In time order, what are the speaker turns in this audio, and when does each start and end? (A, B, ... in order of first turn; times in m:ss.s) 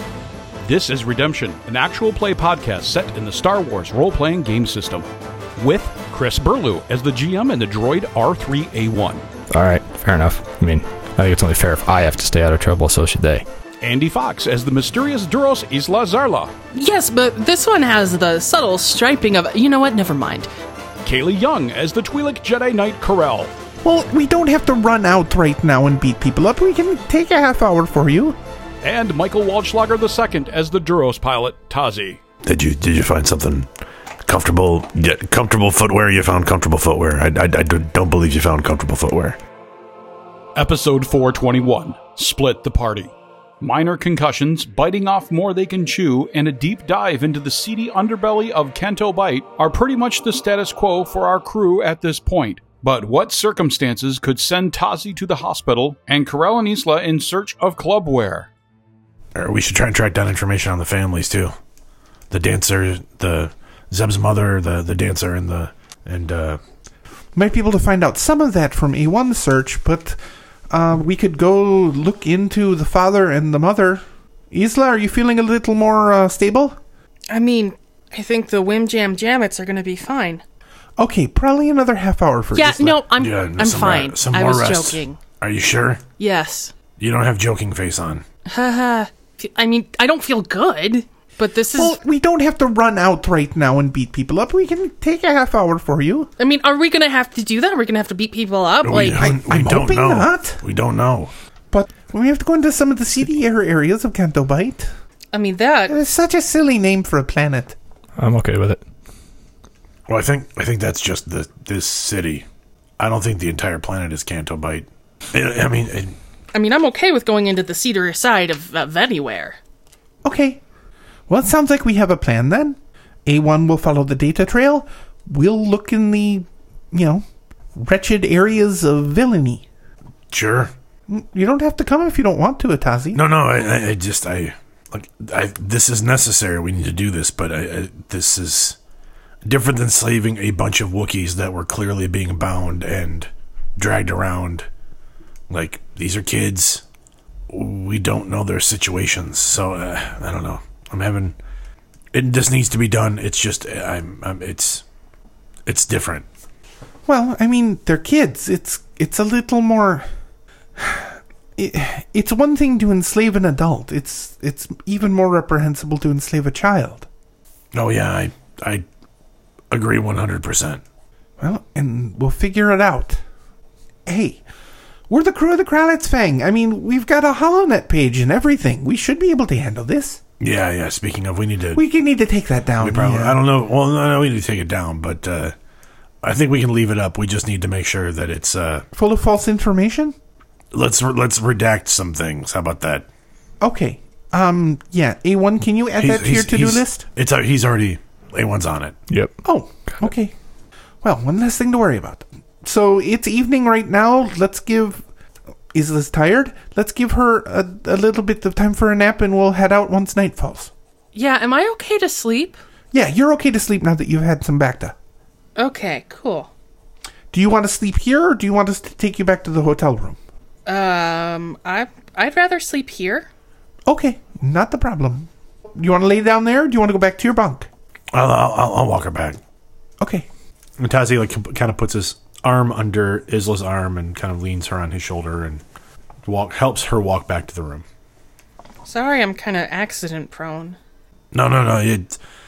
0:00.6-0:09.2 A
0:09.5-0:13.4 B
0:13.8-0:16.5 A
0:16.7-0:20.5 C
0:21.0-0:23.5 A
0:23.8-0:28.4 D
0:28.8-0:32.2 A
0:32.4-0:33.7 E
0:34.3-0:39.4 E
0:40.6-0:58.5 A
0:59.4-1:01.5 E
1:02.3-1:06.6 E
1:07.4-1:10.2 D
1:10.7-1:16.8 D
1:17.3-1:20.4 C
1:21.0-1:23.0 D
1:22.5-1:25.2 C
1:23.2-1:26.0 E
1:26.2-1:26.7 C
1:27.0-1:28.2 E
1:28.5-1:32.0 C
1:31.8-1:36.3 D
1:36.4-1:39.3 C
1:38.8-1:41.3 E
1:39.1-1:40.6 D
1:41.7-1:44.9 D
1:45.3-1:46.0 C
1:45.9-1:47.8 D
1:48.2-1:48.8 B
1:50.1-1:52.4 E
1:53.0-1:56.2 E
1:56.5-1:59.6 C
2:00.2-2:00.6 D
2:01.3-2:07.2 D
2:07.8-2:09.6 D
2:10.3-2:10.7 E
2:11.1-2:13.2 D
2:13.1-2:18.8 E
2:19.4-2:24.7 E
2:25.5-2:26.8 E
2:27.5-2:31.4 E
2:32.1-2:34.8 E
2:35.7-2:36.3 E
2:37.1-2:40.1 D
2:40.8-2:47.1 D
2:47.7-2:48.8 E
2:49.7-2:50.8 E
2:51.4-2:53.2 D
2:54.1-2:54.4 D
2:55.1-3:00.2 D
3:00.4-3:01.8 E
3:01.8-3:03.4 D
3:02.8-3:05.6 E
3:06.2-3:08.8 E
3:09.0-3:10.2 D
3:10.7-3:13.1 E
3:13.6-3:17.0 D
3:16.0-3:19.0 E
3:19.1-3:20.1 B
3:19.4-3:20.3 D
3:21.0-3:25.0 D
3:25.7-3:30.7 D
3:31.2-3:32.6 C
3:32.9-3:35.0 D
3:35.6-3:36.5 C
3:37.3-3:40.2 D
3:40.7-3:43.3 C
3:43.9-3:47.7 D
3:48.1-3:49.4 E
3:50.0-3:50.3 D
3:50.8-3:55.6 E
3:56.2-3:57.8 E
3:58.8-4:00.8 C
4:01.3-4:02.2 E